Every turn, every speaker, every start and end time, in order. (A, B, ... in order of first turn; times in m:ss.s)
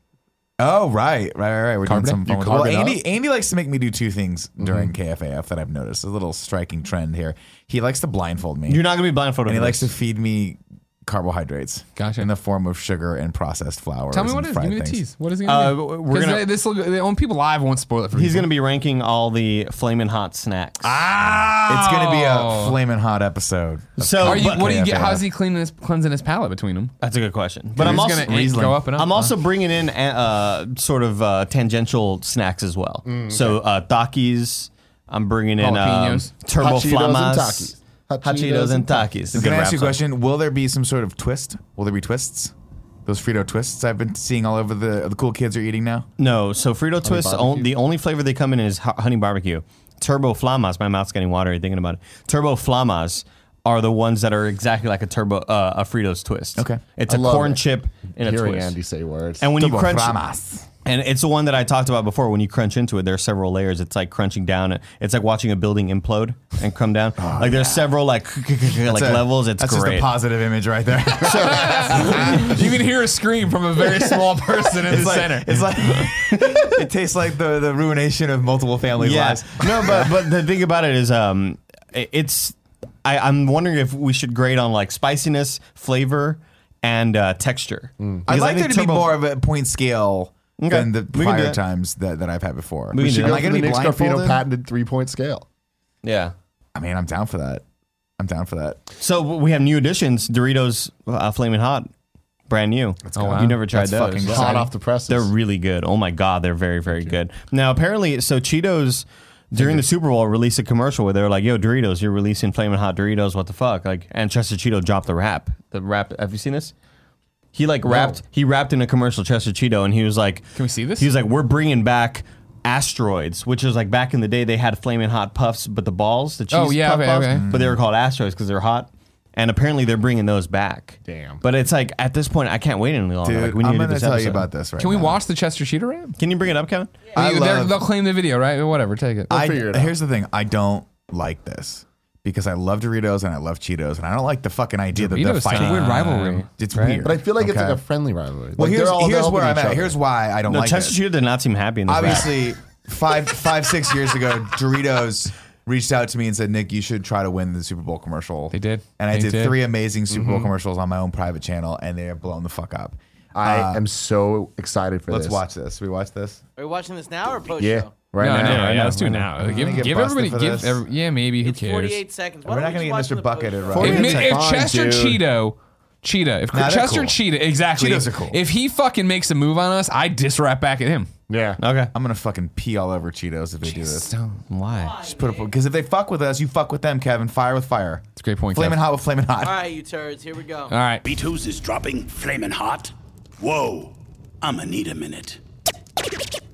0:00.6-0:08.8 A
0:01.8-0:02.2 B
0:02.2-0:03.0 C
0:04.6-0:04.9 C
0:08.7-0:09.9 D
0:09.4-0:15.0 A
0:12.0-0:12.3 B
0:14.1-0:18.5 B
0:15.4-0:16.5 D
0:18.1-0:21.0 D
0:20.8-0:22.8 B
0:21.6-0:25.2 A
0:24.0-0:24.7 D
0:24.2-0:26.9 B
0:27.0-0:40.0 D
0:27.8-0:28.8 A
0:27.8-0:29.3 B
0:33.0-0:33.6 C
0:35.6-0:36.3 B
0:36.6-0:39.4 C
0:39.3-0:42.5 A
0:43.0-0:46.1 A
0:46.2-0:58.8 D
0:47.0-0:47.7 C
0:56.5-0:56.8 A
0:57.1-0:59.5 C
0:59.4-1:00.2 D
0:59.5-1:00.6 A
1:00.8-1:10.1 D
1:07.2-1:07.9 A
1:08.8-1:12.6 A
1:11.3-1:16.1 B
1:14.8-1:20.3 A
1:16.3-1:16.8 D
1:19.0-1:29.2 D
1:28.0-1:28.2 C
1:28.3-1:34.4 A
1:30.6-1:31.6 D
1:32.9-1:33.5 D
1:33.0-1:35.4 C
1:36.0-1:36.3 D
1:36.7-1:37.6 A
1:38.2-1:38.8 A
1:39.0-1:41.9 D
1:42.5-1:56.7 D
1:43.1-1:44.7 A
1:43.1-1:43.6 B
1:44.2-1:45.3 C
1:46.9-1:47.2 C
1:49.5-1:49.8 C
1:57.5-2:14.4 D
2:00.5-2:01.1 B
2:06.5-2:07.4 B
2:07.3-2:07.8 A
2:11.0-2:11.4 C
2:13.2-2:15.2 A
2:14.8-2:16.2 B
2:16.2-2:17.0 D
2:17.1-2:17.8 A
2:17.1-2:19.3 B
2:19.3-2:19.9 C
2:19.3-2:27.8 A
2:24.9-2:26.5 B
2:25.5-2:27.0 D
2:27.0-2:29.9 C
2:28.6-2:31.0 A
2:30.5-2:32.4 D
2:31.9-2:43.8 A
2:38.5-2:39.6 B
2:40.1-2:40.5 C
2:43.3-2:45.4 C
2:45.1-2:46.4 A
2:46.6-2:48.1 E
2:47.6-2:49.2 C
2:48.2-2:52.0 B
2:48.5-2:50.8 A
2:51.4-2:54.0 E
2:52.4-2:54.4 A
2:53.7-2:55.2 C
2:53.8-3:01.1 B
2:56.5-2:58.4 A
3:01.3-3:01.6 C
3:01.6-3:01.9 D
3:01.9-3:04.1 A
3:03.6-3:04.4 B
3:04.5-3:05.0 D
3:04.7-3:05.5 E
3:05.1-3:09.6 A
3:08.2-3:08.8 B
3:09.4-3:10.7 E
3:10.7-3:11.0 B
3:11.0-3:15.4 F